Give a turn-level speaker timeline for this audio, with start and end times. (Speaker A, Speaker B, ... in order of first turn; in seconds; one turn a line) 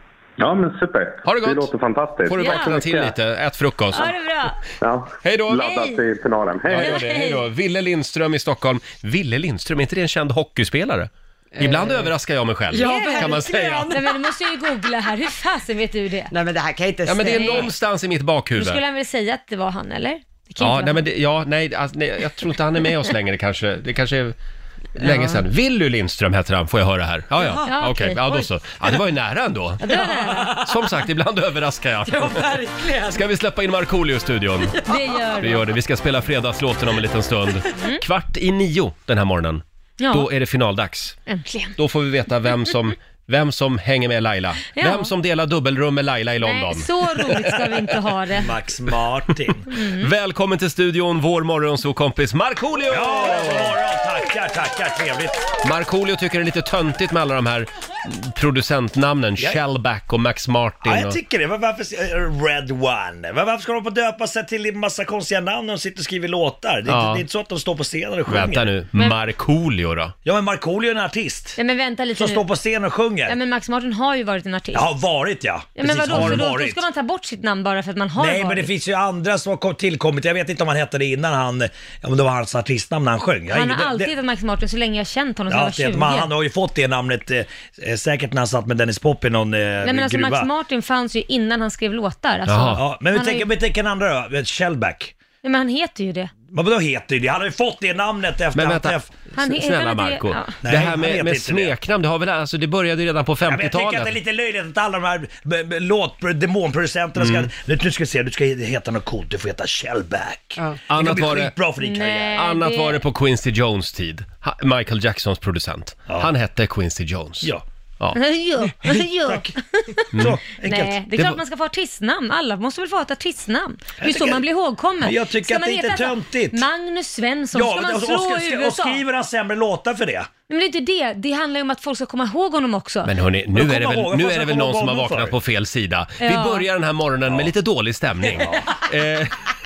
Speaker A: 0.4-3.1
Speaker B: 1.2-1.7
Speaker B: 2.3-4.1
Speaker C: 2.4-2.8
Speaker C: 3.9-4.6
Speaker A: 4.8-7.0
Speaker B: 5.2-5.8
Speaker C: 5.6-6.0
Speaker B: 6.7-13.9
Speaker C: 6.8-7.4
Speaker D: 11.6-12.1
Speaker D: 12.7-14.1
Speaker C: 12.8-16.3
Speaker D: 16.3-17.7
Speaker B: 17.1-18.8
Speaker C: 17.3-17.7
Speaker C: 18.6-21.1
Speaker B: 20.6-24.4
Speaker B: 25.0-30.0
Speaker D: 25.0-25.4
Speaker D: 27.4-27.7
Speaker C: 27.6-28.2
Speaker C: 29.8-30.6
Speaker D: 29.9-30.8
Speaker B: 30.5-32.5
Speaker D: 32.1-33.2
Speaker B: 33.1-34.8
Speaker D: 34.8-35.0
Speaker C: 34.9-35.7
Speaker B: 35.4-41.2
Speaker C: 37.7-38.0
Speaker C: 40.0-40.3
Speaker C: 41.3-41.8
Speaker B: 41.8-47.5
Speaker C: 44.7-45.1
Speaker C: 46.4-48.5
Speaker E: 48.3-49.7
Speaker C: 49.7-50.1
Speaker B: 50.0-53.8
Speaker E: 52.9-55.4
Speaker B: 55.6-61.2
Speaker E: 60.8-68.7
Speaker B: 66.9-67.2
Speaker B: 68.3-70.1
Speaker E: 70.2-71.6
Speaker C: 71.6-72.4
Speaker E: 72.2-73.4
Speaker C: 73.3-74.9
Speaker E: 74.7-76.8
Speaker C: 75.8-78.7
Speaker B: 76.1-76.5
Speaker E: 78.2-84.1
Speaker C: 83.5-86.3
Speaker E: 85.5-90.5
Speaker C: 89.8-93.5
Speaker B: 92.5-92.8
Speaker E: 92.8-95.2
Speaker C: 95.4-96.3
Speaker E: 96.5-99.1
Speaker B: 98.5-104.2
Speaker C: 99.4-100.6
Speaker E: 100.6-101.8
Speaker E: 103.5-112.4
Speaker B: 107.2-107.5
Speaker B: 110.9-111.5
Speaker C: 111.8-113.0
Speaker B: 112.3-118.2
Speaker C: 118.1-120.0
Speaker E: 119.0-119.5
Speaker B: 120.1-120.4
Speaker E: 120.2-121.0
Speaker C: 120.6-129.0
Speaker B: 121.2-121.4
Speaker E: 124.0-124.5
Speaker E: 125.0-126.7
Speaker E: 127.5-130.3
Speaker C: 130.5-133.1
Speaker B: 133.0-139.3
Speaker E: 133.5-135.4
Speaker C: 136.2-136.7
Speaker E: 138.3-138.7